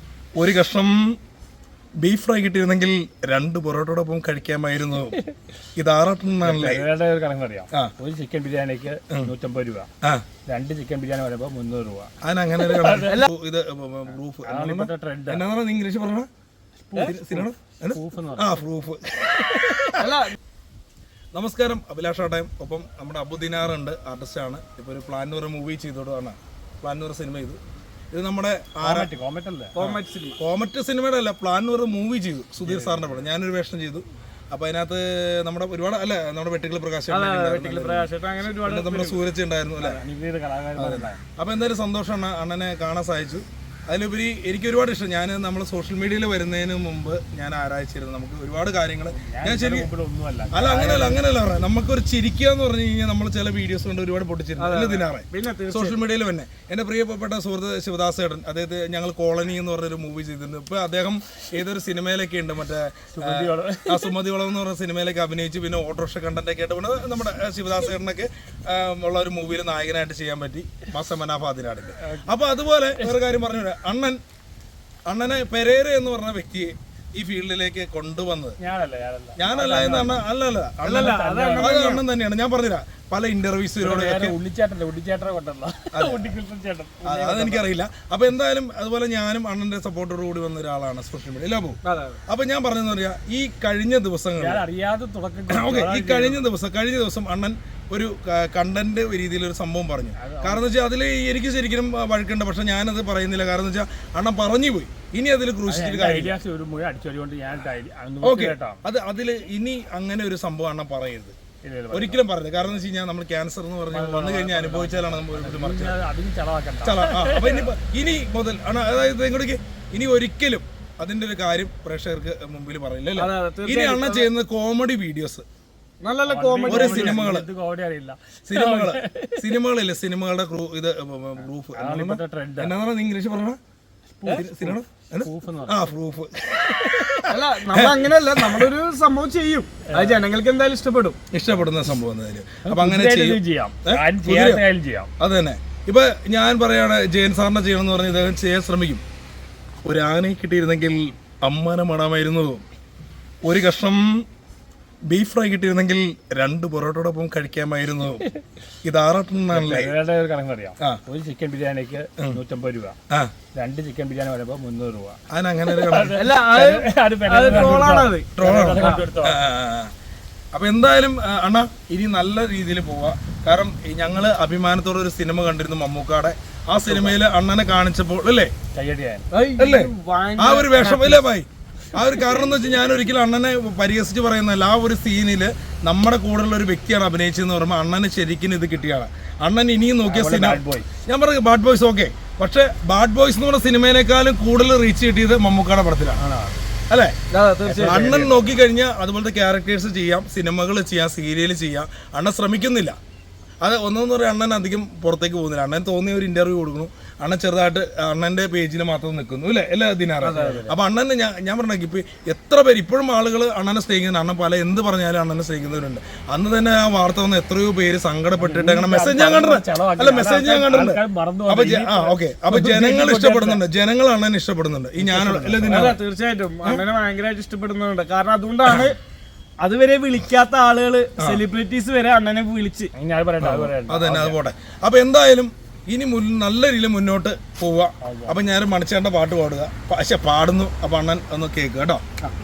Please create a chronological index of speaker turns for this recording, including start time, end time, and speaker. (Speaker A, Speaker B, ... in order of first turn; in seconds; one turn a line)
Speaker A: 0.3-1.2
Speaker A: 2.0-5.2
Speaker A: 5.8-6.9
Speaker B: 6.4-9.9
Speaker B: 10.5-13.3
Speaker A: 12.2-16.3
Speaker B: 14.4-15.4
Speaker B: 16.9-18.6
Speaker A: 16.9-20.1
Speaker B: 19.5-19.9
Speaker C: 20.0-20.4
Speaker A: 21.3-27.6
Speaker A: 28.1-29.1
Speaker B: 28.8-29.8
Speaker C: 29.8-30.4
Speaker A: 29.8-40.0
Speaker B: 32.6-33.3
Speaker C: 37.1-39.2
Speaker B: 39.8-41.2
Speaker A: 40.8-49.9
Speaker B: 49.1-51.2
Speaker A: 50.5-74.2
Speaker C: 54.6-56.0
Speaker B: 63.1-64.2
Speaker B: 72.0-72.3
Speaker A: 75.1-78.6
Speaker B: 78.6-80.2
Speaker A: 79.4-84.4
Speaker C: 80.8-82.0
Speaker B: 80.9-81.9
Speaker B: 83.8-87.7
Speaker A: 85.9-86.4
Speaker A: 87.0-94.6
Speaker C: 91.8-92.2
Speaker B: 94.4-96.5
Speaker A: 95.5-106.4
Speaker B: 100.2-100.7
Speaker B: 105.7-108.8
Speaker A: 108.2-111.3
Speaker B: 111.6-112.2
Speaker A: 111.9-116.0
Speaker B: 113.9-117.7
Speaker A: 116.8-125.5
Speaker C: 123.2-124.3
Speaker C: 126.0-127.3
Speaker B: 126.2-129.5
Speaker A: 126.7-127.5
Speaker A: 128.5-133.6
Speaker B: 131.4-132.8
Speaker B: 134.2-135.9
Speaker A: 134.3-138.7
Speaker B: 136.6-137.5
Speaker C: 137.3-141.2
Speaker B: 139.9-140.2
Speaker A: 141.3-144.6
Speaker B: 142.7-145.1
Speaker A: 145.2-149.0
Speaker A: 149.8-152.6
Speaker A: 153.4-154.3
Speaker A: 155.1-158.3
Speaker A: 158.8-159.9
Speaker B: 159.5-163.0
Speaker B: 163.5-169.4
Speaker A: 165.3-166.4
Speaker C: 166.2-169.1
Speaker A: 167.4-169.9
Speaker A: 170.5-178.5
Speaker B: 176.8-177.2
Speaker B: 178.7-179.3
Speaker C: 179.3-181.2
Speaker A: 179.6-196.2
Speaker B: 190.1-190.9
Speaker B: 196.2-196.6
Speaker A: 196.9-197.2
Speaker C: 197.3-198.3
Speaker B: 197.7-198.3
Speaker A: 197.7-203.0
Speaker A: 203.6-226.0
Speaker C: 210.2-210.5
Speaker B: 210.3-210.7
Speaker B: 218.4-223.6
Speaker B: 225.0-225.9
Speaker C: 225.7-229.0
Speaker C: 229.6-232.9
Speaker B: 232.9-234.4
Speaker A: 233.4-242.0
Speaker B: 238.0-238.4